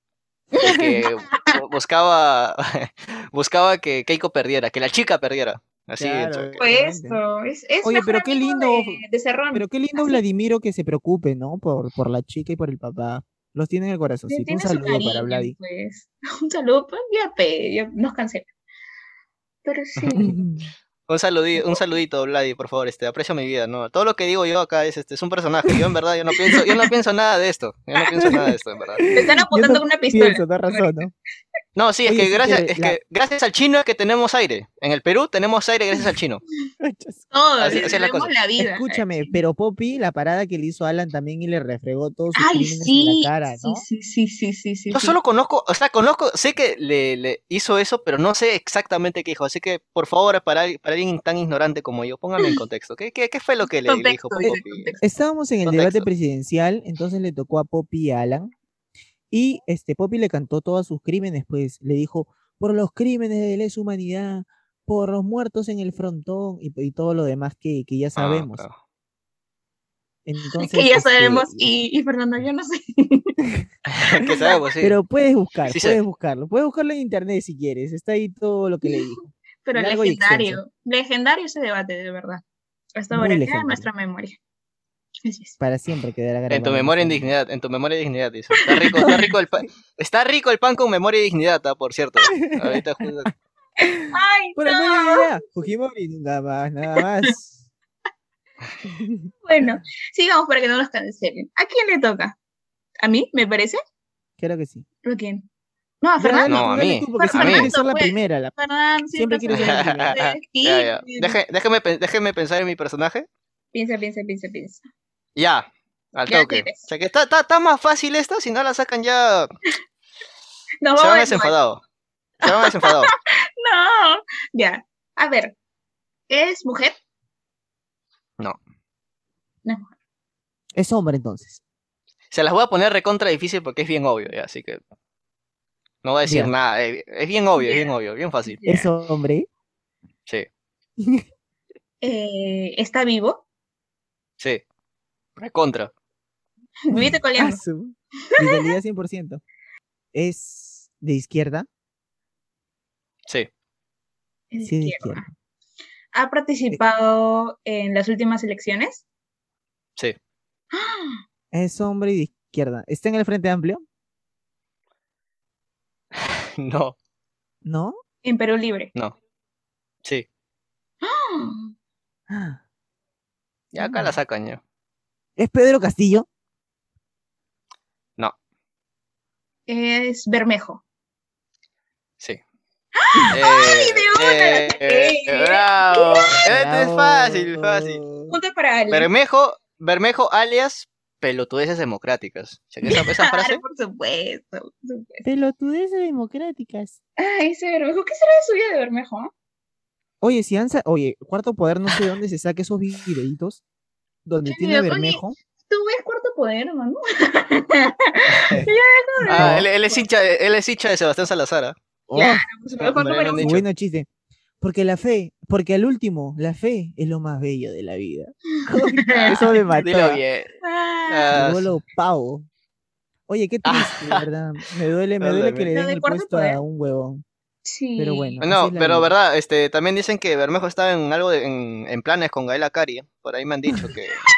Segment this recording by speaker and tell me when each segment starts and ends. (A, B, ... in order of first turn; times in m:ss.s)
0:00.6-0:01.6 A
0:00.6-0:06.6 B
0:06.0-0:07.2 C
0:06.6-0:10.2 A
0:07.8-0:09.0 C
0:09.5-0:15.6 C
0:14.3-0:18.5 A
0:19.6-0:20.4 A
0:20.2-0:20.7 C
0:21.1-0:29.1 B
0:26.4-0:26.8 A
0:28.2-0:31.1 C
0:29.1-0:31.0 A
0:31.8-0:36.4 B
0:32.1-0:33.0 C
0:36.8-0:37.2 C
0:37.3-0:39.4 A
0:37.6-0:38.3 B
0:38.6-0:43.8 C
0:42.4-0:45.2 A
0:44.9-0:54.9 B
0:53.8-0:55.0 A
0:54.4-0:58.5 C
0:55.6-0:56.1 B
0:59.3-1:08.6 C
1:08.2-1:08.7 B
1:10.2-1:11.7 C
1:10.6-1:13.4 A
1:13.9-1:15.0 B
1:14.3-1:14.6 A
1:14.8-1:20.6 C
1:15.7-1:16.0 B
1:19.6-1:22.4 A
1:23.0-1:24.4 A
1:23.1-1:23.9 C
1:25.2-1:25.6 A
1:25.6-1:27.3 C
1:26.5-1:33.3 B
1:28.6-1:29.2 A
1:32.4-1:32.8 C
1:33.8-1:35.4 A
1:34.6-1:37.6 C
1:37.0-1:37.3 A
1:38.8-1:39.3 C
1:39.4-1:42.4 A
1:43.0-1:43.8 A
1:44.4-1:44.8 C
1:45.0-1:45.5 A
1:46.0-1:51.4 A
1:46.2-1:48.5 C
1:46.5-1:47.7 B
1:49.2-1:50.2 C
1:49.5-1:53.3 B
1:53.7-1:54.8 A
1:55.4-1:59.5 B
1:56.3-1:56.8 A
2:00.8-2:01.5 A
2:01.0-2:01.8 B
2:02.4-2:03.1 B
2:02.5-2:05.6 A
2:06.3-2:07.0 A
2:09.6-2:09.9 A
2:10.8-2:11.6 C
2:12.3-2:14.8 B
2:16.0-2:18.6 B
2:16.2-2:16.5 C
2:17.6-2:17.9 A
2:18.5-2:18.9 A
2:18.7-2:19.5 C
2:21.0-2:21.2 C
2:22.0-2:23.4 A
2:25.4-2:25.9 B
2:26.9-2:27.6 A
2:26.9-2:29.4 C
2:28.4-2:28.7 A
2:30.1-2:31.7 C
2:34.5-2:35.2 A
2:34.6-2:35.3 C
2:36.1-2:39.0 A
2:40.7-2:41.2 A
2:41.5-2:43.8 C
2:46.2-2:47.0 B
2:47.6-2:48.0 C
2:48.2-2:48.9 A
2:51.0-2:51.7 A
2:52.3-2:52.6 C
2:53.7-2:54.6 B
2:53.8-2:54.2 C
2:55.4-2:56.3 C
2:59.7-3:00.8 A
3:03.0-3:06.4 A
3:03.3-3:08.0 B
3:06.4-3:08.4 C
3:08.3-3:09.1 A
3:08.9-3:13.6 B
3:12.9-3:15.3 A
3:15.2-3:17.0 C
3:17.2-3:19.3 A
3:20.2-3:23.6 C
3:24.2-3:25.4 C
3:24.5-3:30.0 A
3:28.3-3:28.7 B
3:29.2-3:29.7 C
3:29.3-3:31.8 B
3:32.1-3:32.5 C
3:32.2-3:33.5 A
3:32.8-3:33.6 B
3:33.4-3:34.1 C
3:34.6-3:40.2 C
3:38.8-3:39.6 A
3:39.1-3:40.5 B
3:40.6-3:41.3 A
3:41.1-3:41.7 B
3:41.3-3:42.5 C
3:43.3-3:47.2 C
3:43.6-3:44.2 B
3:45.2-3:45.7 B
3:45.7-3:46.6 A
3:47.6-3:48.4 A
3:48.0-3:49.1 C
3:48.4-3:54.2 B